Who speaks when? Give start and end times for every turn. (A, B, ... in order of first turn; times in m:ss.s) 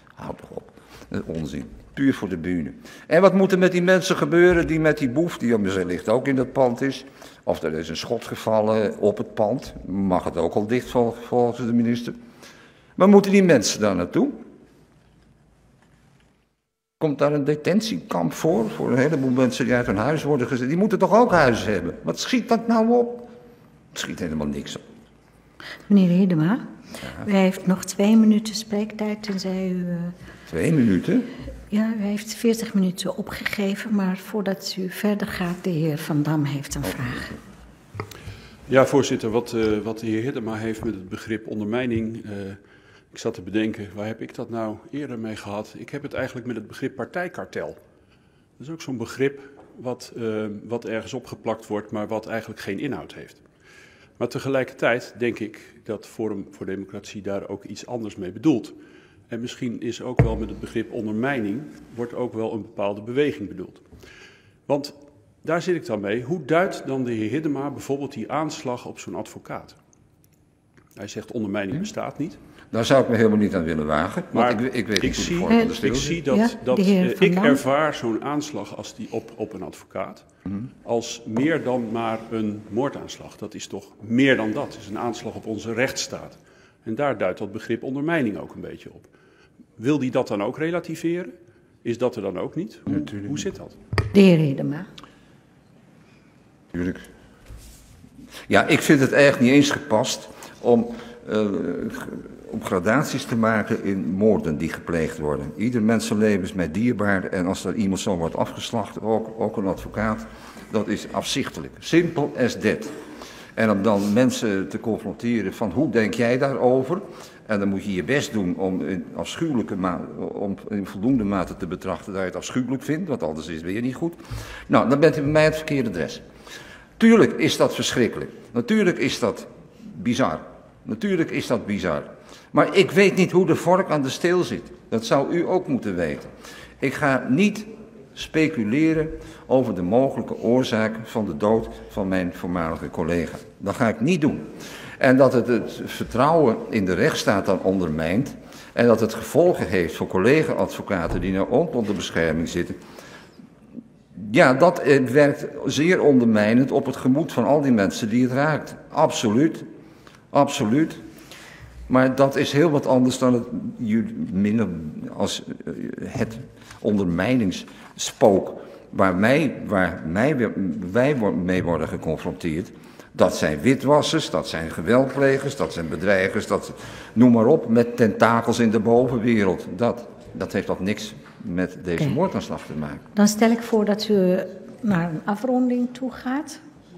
0:00.2-0:12.2 A
0:13.0-0:14.4 A
0:17.0-0:23.3 A
0:23.9-0:24.8 A
0:25.9-0:26.6 B
0:27.2-0:30.1 B
0:30.5-0:31.3 A
0:31.7-0:37.3 B
0:38.7-0:42.6 C
0:43.1-0:47.8 C
0:48.6-0:53.4 C
0:54.2-0:58.8 C
0:59.3-1:03.8 C
1:04.7-1:09.8 C
1:11.0-1:12.4 C
1:12.7-1:16.2 A
1:14.3-1:20.3 C
1:16.3-1:17.6 B
1:20.8-1:29.1 C
1:29.8-1:33.8 C
1:34.1-1:34.8 B
1:36.7-1:37.0 A
1:38.5-1:52.9 A
1:53.6-2:04.2 A
2:04.7-2:06.2 A
2:07.0-2:32.8 A
2:34.2-2:39.7 A
2:40.3-2:41.0 A
2:41.9-3:03.0 A
3:03.2-3:06.6 B